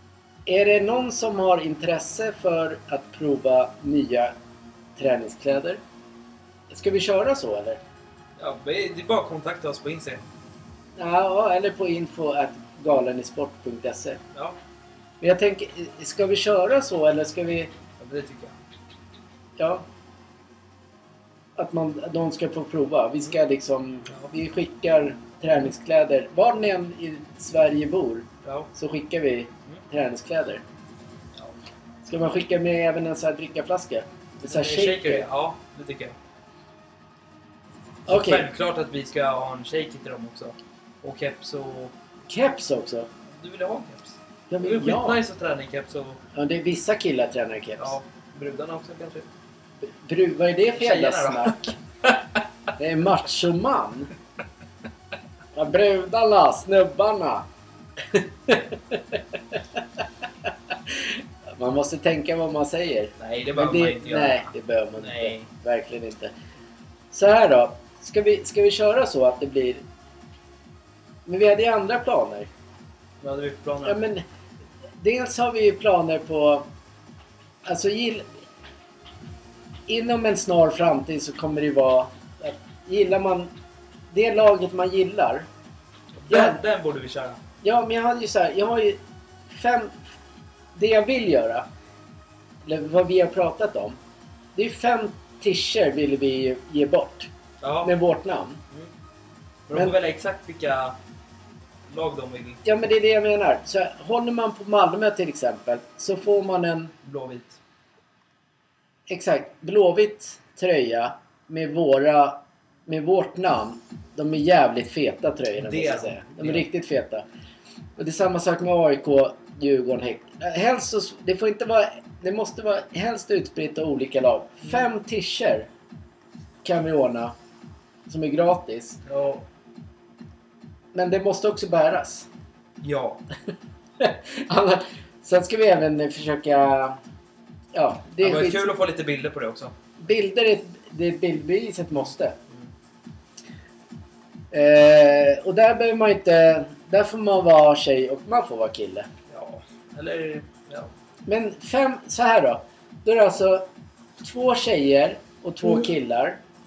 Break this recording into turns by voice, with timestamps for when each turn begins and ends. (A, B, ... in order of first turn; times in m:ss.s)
0:00.5-0:04.3 A
0:05.0-0:05.8 A
0:06.7-0:07.8 A
0:08.4-0:10.2 B
0:11.0-0:14.2 A
0:15.2-0:17.7 A
0:18.0-0:18.6 B
0:19.6-0:19.8 A
0:21.6-0:30.6 A
0:28.4-0:28.7 B
0:32.0-0:35.3 A
0:34.4-0:36.2 B
0:38.1-0:38.5 A
0:38.1-0:41.9 B
0:42.3-0:43.1 A
0:43.3-0:46.2 B
0:44.5-0:45.2 A
0:46.3-0:48.0 A
0:47.8-0:49.3 B
0:49.8-0:51.8 A
0:50.8-0:52.4 B
0:52.8-0:54.1 A
0:55.5-0:57.5 A
0:58.1-0:59.8 A
1:00.7-1:06.3 A
1:03.2-1:05.5 B
1:07.1-1:09.8 A
1:11.3-1:12.5 A
1:13.2-1:14.0 B
1:13.8-1:14.2 A
1:15.0-1:16.6 A
1:17.6-1:18.3 A
1:19.9-1:23.5 A
1:24.1-1:25.5 A
1:26.2-1:27.4 B
1:26.3-1:26.6 A
1:27.6-1:30.1 A
1:30.8-1:31.7 A
1:32.6-1:34.0 A
1:34.6-1:37.3 A
1:37.6-1:37.9 B
1:37.8-1:38.6 A
1:39.7-1:41.0 B
1:41.9-1:42.6 B
1:42.6-1:46.9 A
1:47.0-1:47.6 B
1:49.1-1:57.2 A
1:55.6-1:56.6 B
1:58.0-2:05.7 A
2:06.6-2:07.4 A
2:08.1-2:09.0 A
2:09.1-2:09.4 B
2:10.9-2:12.3 A
2:12.8-2:13.2 B
2:14.0-2:17.0 A
2:17.7-2:18.7 A
2:18.2-2:19.8 B
2:20.0-2:22.4 A
2:24.5-2:29.1 A
2:29.3-2:30.9 B
2:31.3-2:33.7 A
2:34.2-2:36.4 A